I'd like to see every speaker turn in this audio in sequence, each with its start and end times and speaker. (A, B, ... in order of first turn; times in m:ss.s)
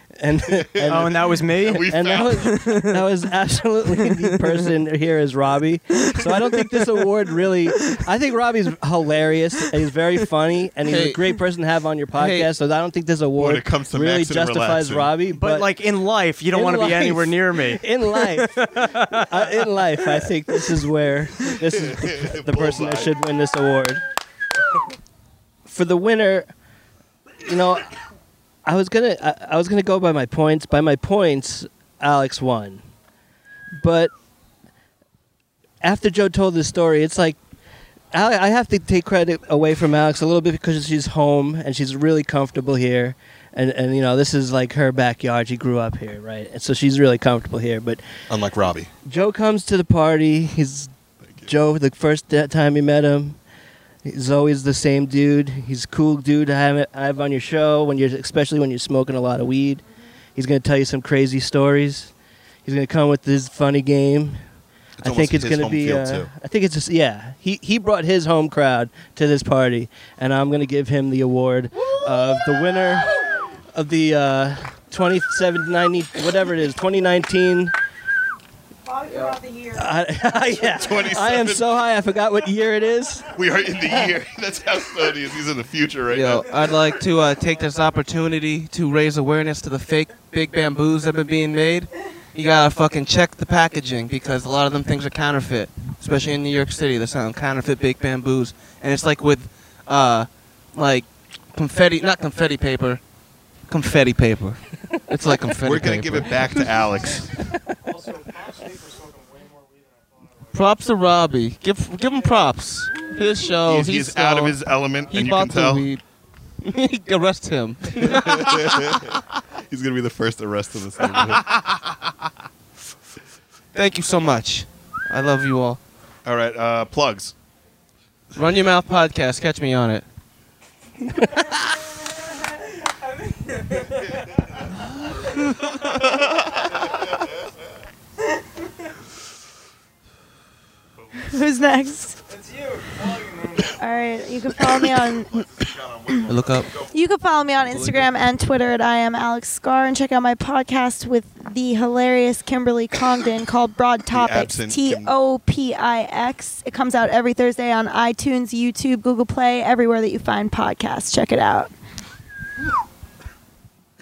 0:00.2-0:01.1 A
0:00.5-0:02.6 B
0:00.9-0:02.9 C
0:01.8-0:15.7 A
0:10.8-0:11.2 D
0:12.1-0:12.5 D
0:13.4-0:15.1 B
0:15.4-0:20.6 C
0:16.5-0:24.0 A
0:21.6-0:23.2 B
0:25.7-0:26.5 A
0:27.4-0:27.9 A
0:28.6-0:32.8 A
0:33.8-0:34.1 A
0:35.8-0:37.4 A
0:38.1-0:48.0 A
0:48.3-0:48.9 B
0:49.0-0:50.9 A
0:51.2-0:51.5 B
0:51.4-0:53.4 A
0:54.0-0:59.8 A
1:00.3-1:02.1 A
1:02.6-1:04.4 A
1:05.0-1:06.3 B
1:05.0-1:13.1 A
1:13.7-1:17.7 A
1:18.8-1:20.0 E
1:19.7-1:23.3 A
1:20.5-1:21.8 B
1:23.3-1:26.6 B
1:26.1-1:43.0 D
1:43.7-1:46.7 D
1:45.6-1:47.3 B
1:50.5-1:56.0 D
1:53.6-1:55.9 B
1:56.6-1:59.0 D
1:58.0-2:02.0 B
2:03.7-2:05.8 D
2:06.2-2:07.3 B
2:08.3-2:10.0 D
2:21.1-2:22.2 E
2:23.6-2:25.3 E
2:24.8-2:26.7 B
2:26.3-2:26.7 D
2:26.8-2:41.7 E
2:34.1-2:35.1 B